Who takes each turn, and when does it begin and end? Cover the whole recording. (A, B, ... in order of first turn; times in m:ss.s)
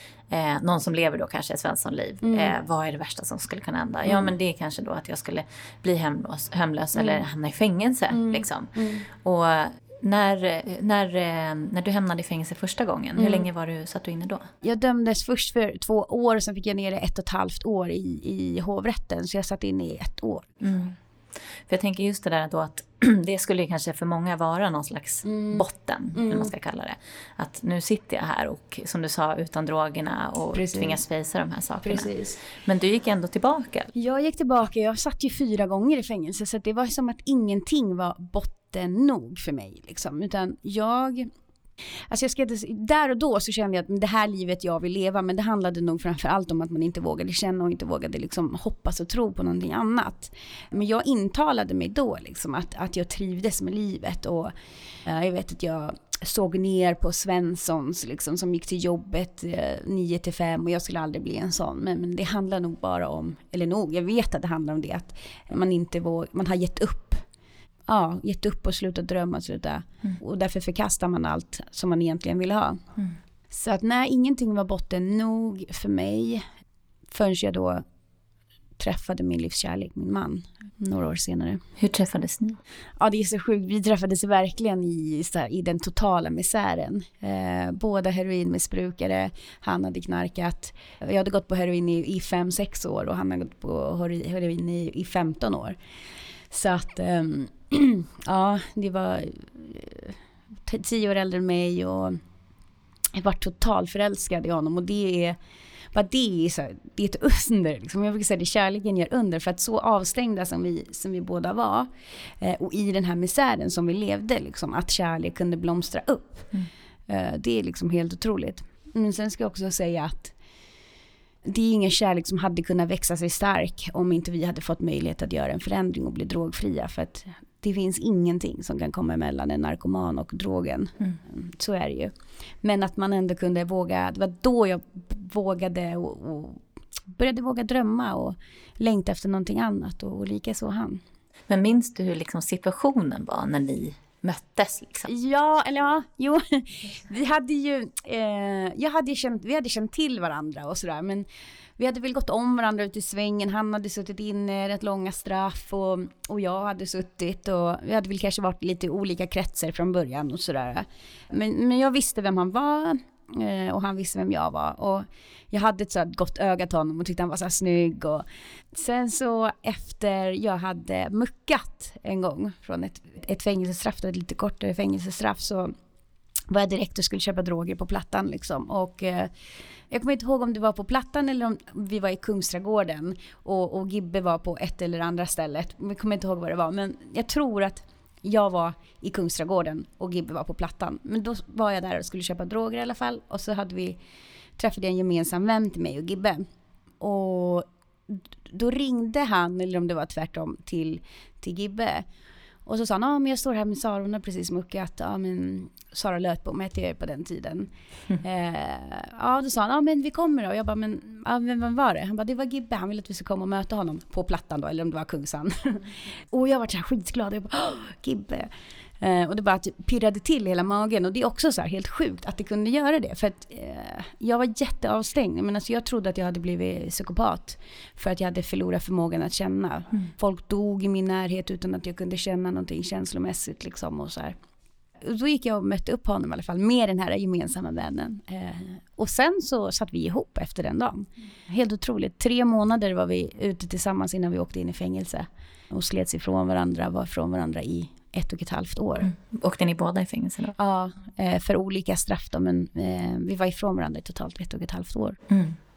0:00.3-0:14.5 A
0:02.2-0:02.6 B
0:08.1-0:09.0 B
0:13.2-0:13.4 B
0:14.6-0:20.5 B
0:20.6-0:21.0 A
0:21.7-0:33.9 A
0:25.2-0:25.6 B
0:26.2-0:26.5 B
0:30.5-0:31.0 B
0:31.8-0:32.4 B
0:34.0-0:41.3 B
0:42.1-0:54.5 B
0:55.0-1:07.2 B
1:07.9-1:12.8 B
1:13.5-1:16.4 B
1:17.1-1:17.8 B
1:18.8-1:21.6 B
1:21.8-1:22.6 A
1:23.0-1:35.8 B
1:36.5-1:42.2 B
1:43.2-1:45.4 B
1:45.9-1:51.9 B
1:52.4-1:56.5 B
1:57.1-2:00.3 B
2:01.4-2:21.0 B
2:21.5-2:25.1 A
2:25.1-2:31.3 B
2:31.8-2:55.7 B
2:56.5-2:59.3 B
2:59.9-3:14.0 B
3:14.6-3:16.4 B
3:17.0-3:22.1 B
3:22.7-3:54.4 B
3:55.0-4:09.1 B
4:09.1-4:10.6 A
4:10.6-4:15.2 B
4:15.3-4:15.6 A